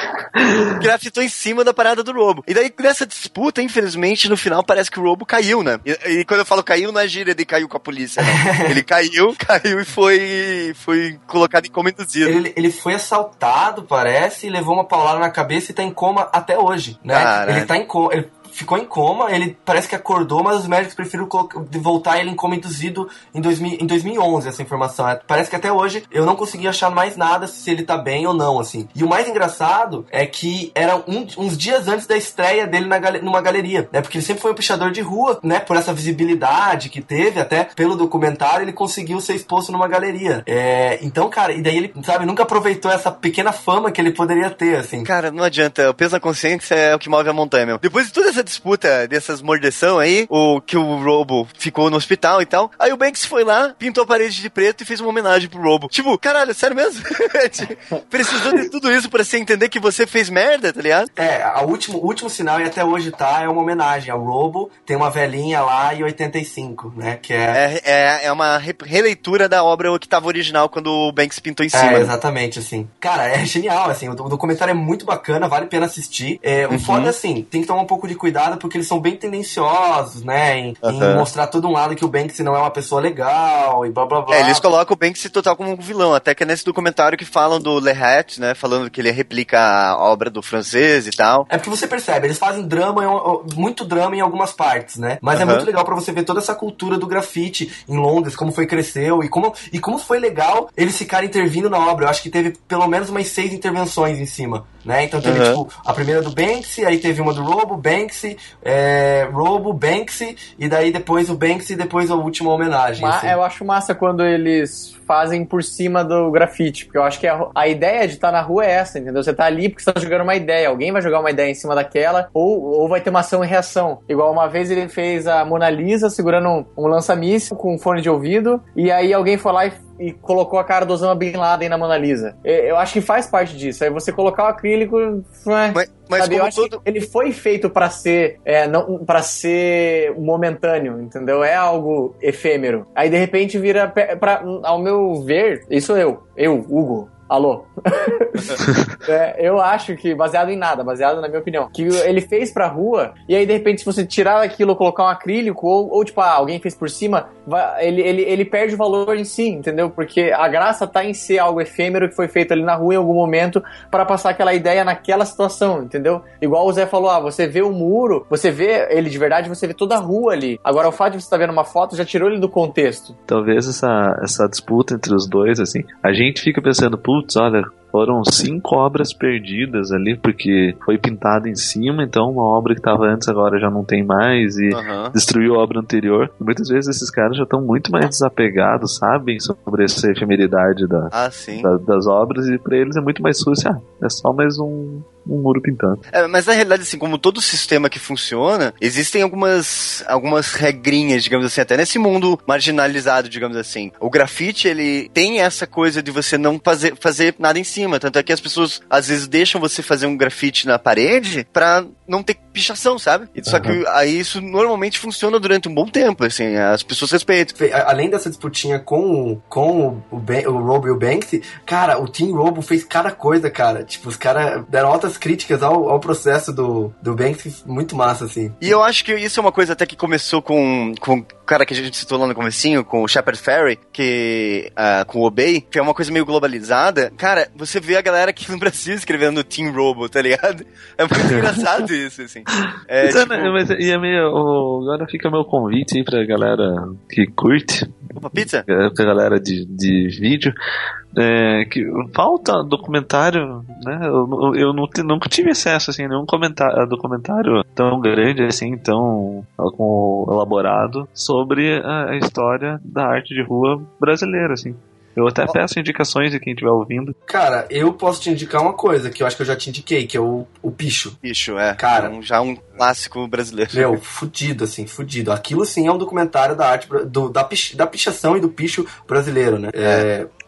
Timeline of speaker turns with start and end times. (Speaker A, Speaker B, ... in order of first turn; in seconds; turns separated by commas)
Speaker A: 0.4-0.7, Speaker B: 0.7-12.4, Speaker C: 8.2-8.8, Speaker C: 12.2-45.1, Speaker B: 17.1-17.7, Speaker B: 45.0-61.1, Speaker C: 61.2-67.6, Speaker B: 67.5-72.1, Speaker C: 71.7-84.7, Speaker B: 76.7-77.1, Speaker B: 80.8-81.3, Speaker B: 84.3-91.5, Speaker C: 91.5-113.4, Speaker B: 95.4-95.7, Speaker B: 105.2-105.6, Speaker D: 113.0-173.2, Speaker B: 135.7-136.8, Speaker A: 173.3-196.0, Speaker B: 184.7-185.2, Speaker B: 191.1-191.7, Speaker B: 196.1-217.6, Speaker A: 213.5-213.8, Speaker C: 217.6-228.6, Speaker B: 228.6-243.6, Speaker A: 242.6-248.1, Speaker B: 248.2-248.7, Speaker A: 248.7-250.5, Speaker A: 251.2-267.1, Speaker C: 267.3-271.2, Speaker B: 271.2-274.0, Speaker C: 271.8-272.1, Speaker C: 273.7-280.3